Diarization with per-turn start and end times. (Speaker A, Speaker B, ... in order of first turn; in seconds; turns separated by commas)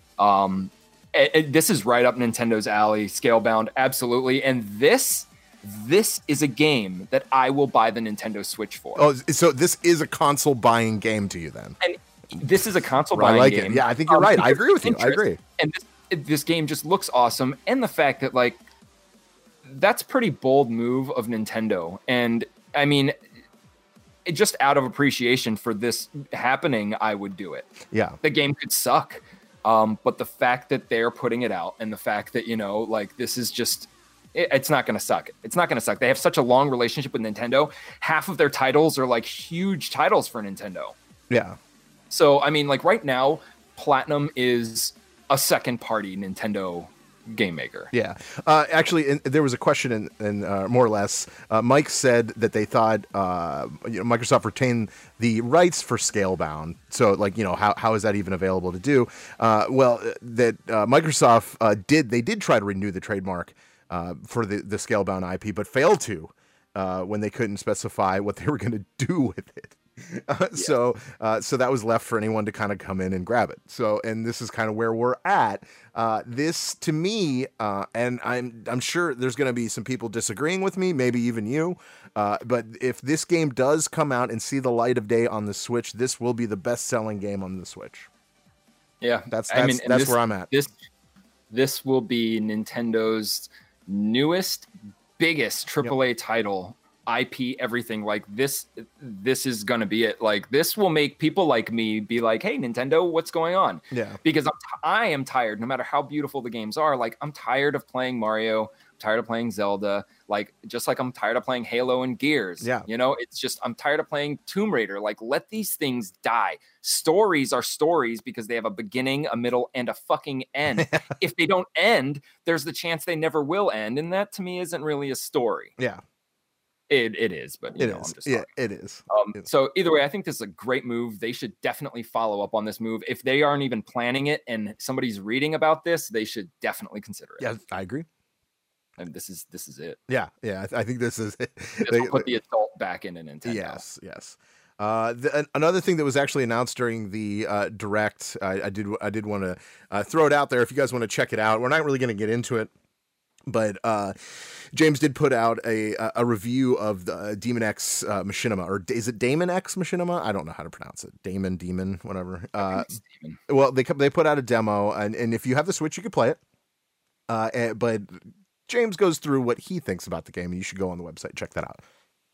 Speaker A: 0.2-9.1, Speaker B: 8.9-11.8, Speaker A: 11.8-18.6, Speaker B: 12.3-15.4, Speaker A: 19.6-23.1, Speaker A: 24.3-27.7, Speaker B: 27.9-28.2, Speaker A: 28.2-41.0, Speaker B: 41.3-41.6, Speaker A: 42.1-47.9, Speaker B: 47.9-88.1, Speaker A: 89.0-90.7, Speaker B: 89.3-90.5, Speaker A: 91.5-94.7, Speaker A: 95.2-125.7, Speaker B: 103.9-104.2, Speaker B: 112.6-112.9, Speaker B: 120.8-121.1, Speaker A: 126.9-128.5, Speaker B: 127.8-129.4, Speaker A: 129.1-137.5, Speaker B: 137.4-138.1, Speaker A: 139.0-140.0, Speaker B: 140.1-142.3, Speaker A: 141.8-143.8, Speaker B: 143.4-152.7, Speaker B: 153.5-162.9, Speaker A: 162.6-163.4, Speaker B: 163.5-166.4, Speaker B: 167.3-171.8